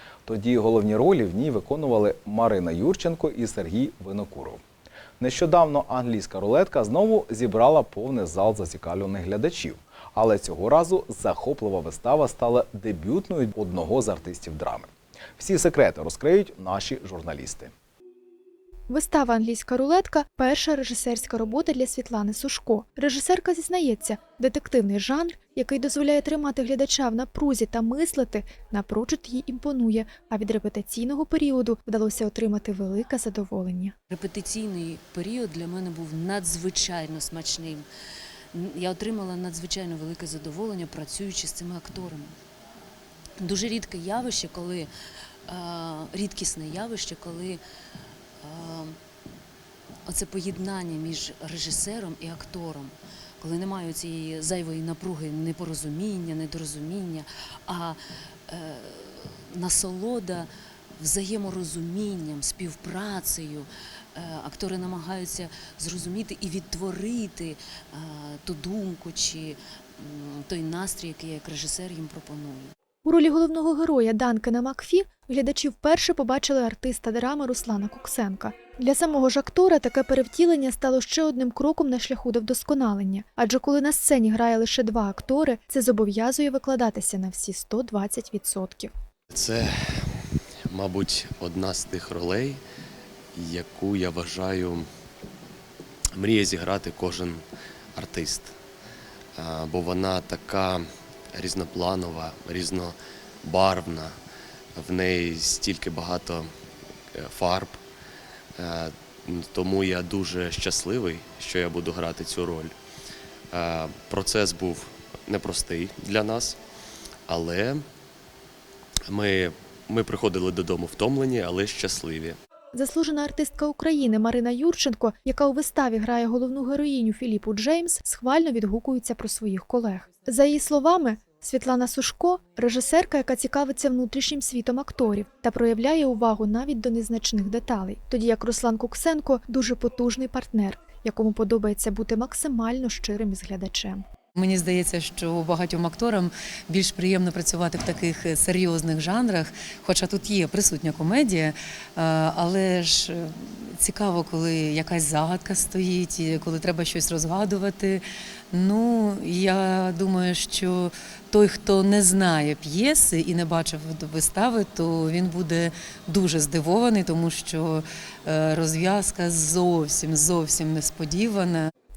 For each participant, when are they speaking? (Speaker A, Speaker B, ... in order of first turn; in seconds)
Speaker A: 0.3-4.6, 5.2-17.7
Speaker B: 18.9-34.0, 73.0-88.9, 122.7-144.0
Speaker C: 34.1-37.9, 38.5-42.3, 43.4-44.9, 45.5-47.6, 48.4-49.0, 50.1-72.7
Speaker D: 89.3-92.6, 93.3-94.9, 96.2-98.6, 99.4-104.2, 104.8-106.5, 107.1-107.8, 108.6-112.8, 113.5-116.6, 117.3-117.8, 119.1-122.4
Speaker E: 144.4-171.7